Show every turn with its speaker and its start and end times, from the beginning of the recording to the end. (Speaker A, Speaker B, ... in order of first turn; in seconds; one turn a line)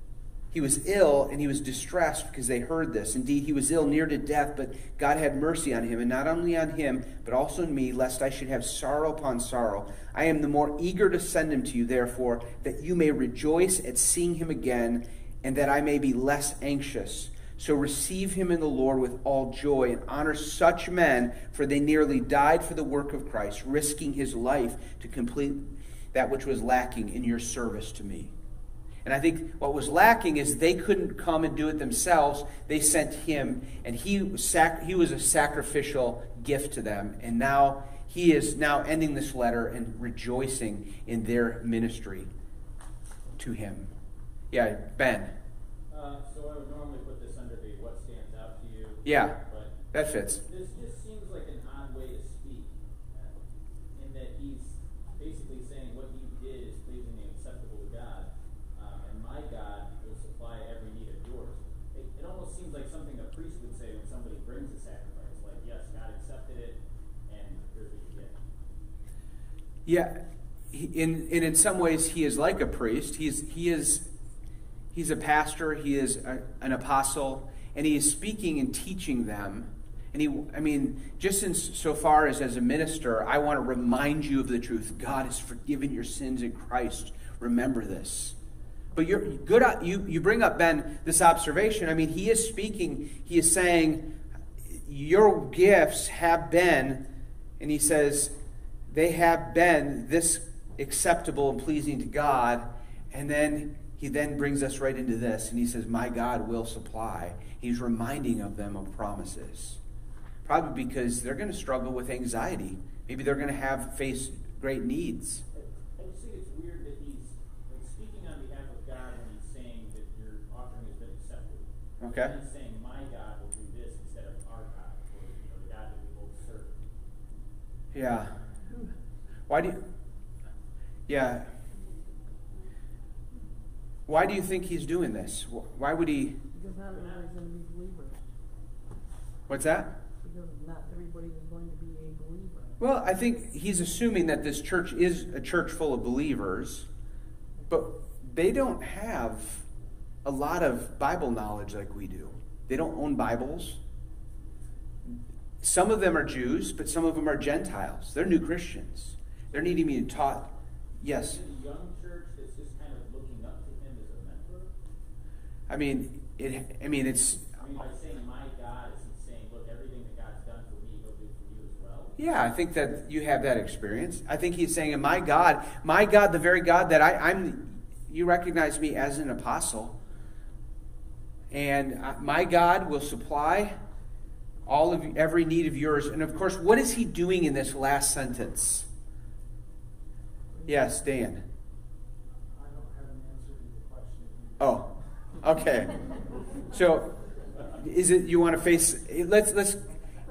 Speaker A: 0.5-28.3
Speaker A: 29.0-42.3
Speaker A: 43.4-43.9
Speaker A: 44.5-45.3
Speaker B: 45.9-49.8
Speaker A: 49.0-49.4
Speaker A: 49.9-50.4
Speaker B: 50.4-53.4
Speaker B: 53.9-68.4
Speaker A: 69.8-74.1
Speaker A: 74.9-88.3
Speaker A: 88.9-94.1
Speaker A: 94.7-97.1
Speaker A: 97.6-98.3
Speaker A: 98.9-109.8
Speaker A: 110.4-115.4
Speaker B: 116.0-126.8
Speaker A: 122.0-122.4
Speaker A: 127.9-128.4
Speaker A: 129.5-129.8
Speaker A: 131.1-131.5
Speaker A: 134.1-136.4
Speaker C: 136.5-138.2
Speaker B: 136.9-137.2
Speaker A: 139.5-139.9
Speaker C: 140.2-142.8
Speaker A: 142.8-146.9
Speaker A: 147.7-149.7
Speaker A: 150.2-153.8
Speaker A: 155.6-161.4
Speaker B: 161.1-164.7
Speaker A: 165.7-167.5
Speaker B: 167.6-172.2
Speaker A: 172.2-180.0
Speaker A: 181.5-183.7
Speaker A: 184.7-188.9
Speaker C: 190.5-191.0
Speaker A: 190.7-191.4
Speaker D: 192.5-194.8
Speaker A: 194.6-196.0
Speaker A: 196.7-197.2
Speaker A: 197.7-199.9